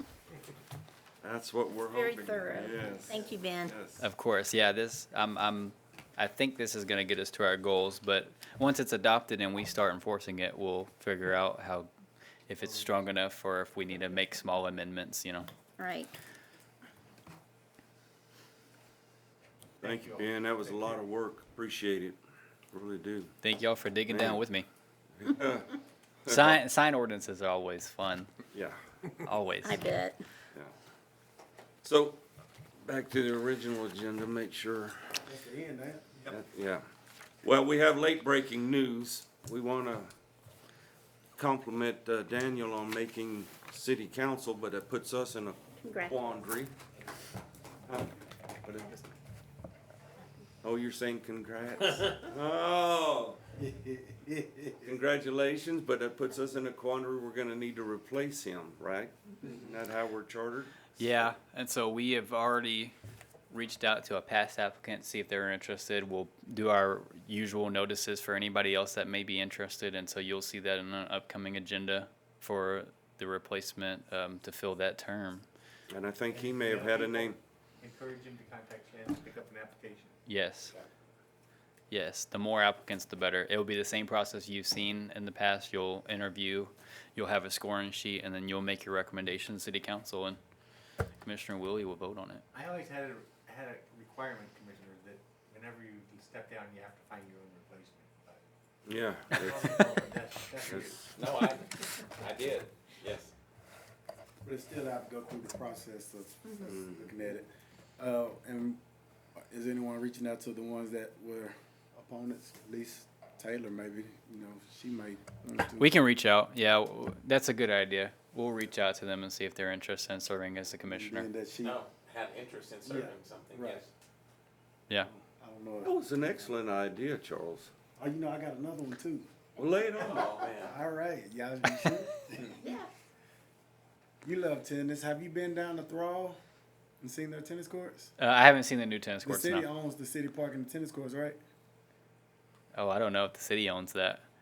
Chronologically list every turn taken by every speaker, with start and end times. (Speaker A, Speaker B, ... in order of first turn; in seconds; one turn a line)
Speaker A: 1.2-4.0
Speaker B: 1.9-3.7
Speaker C: 4.0-11.9
Speaker C: 12.5-15.5
Speaker B: 15.8-16.1
Speaker D: 19.8-21.0
Speaker A: 19.8-22.2
Speaker A: 22.7-23.3
Speaker C: 23.4-24.7
Speaker A: 24.1-24.4
Speaker A: 25.2-26.6
Speaker C: 26.3-28.3
Speaker A: 28.5-28.8
Speaker C: 29.2-29.8
Speaker B: 29.6-30.2
Speaker A: 31.8-32.2
Speaker A: 32.9-35.2
Speaker E: 35.2-36.3
Speaker A: 36.3-36.9
Speaker A: 37.4-40.1
Speaker A: 41.4-46.7
Speaker B: 45.8-46.2
Speaker A: 48.6-49.1
Speaker A: 50.6-53.4
Speaker E: 53.9-54.7
Speaker A: 54.8-61.3
Speaker C: 61.0-62.9
Speaker C: 63.5-75.5
Speaker A: 75.9-77.4
Speaker D: 76.3-80.2
Speaker C: 80.3-80.8
Speaker C: 81.9-90.4
Speaker C: 91.2-92.4
Speaker D: 92.5-98.4
Speaker A: 98.9-101.0
Speaker D: 99.3-101.1
Speaker F: 101.1-103.3
Speaker E: 104.4-108.8
Speaker A: 106.7-107.1
Speaker E: 109.5-115.9
Speaker C: 115.8-121.3
Speaker E: 120.9-121.8
Speaker F: 121.6-123.9
Speaker E: 122.8-123.8
Speaker E: 125.0-126.0
Speaker A: 125.8-127.7
Speaker E: 128.0-129.3
Speaker A: 129.6-130.4
Speaker F: 130.0-130.8
Speaker E: 130.5-132.3
Speaker B: 132.6-132.9
Speaker E: 134.2-136.4
Speaker E: 137.0-138.1
Speaker C: 138.2-139.7
Speaker E: 139.2-141.4
Speaker C: 142.7-144.2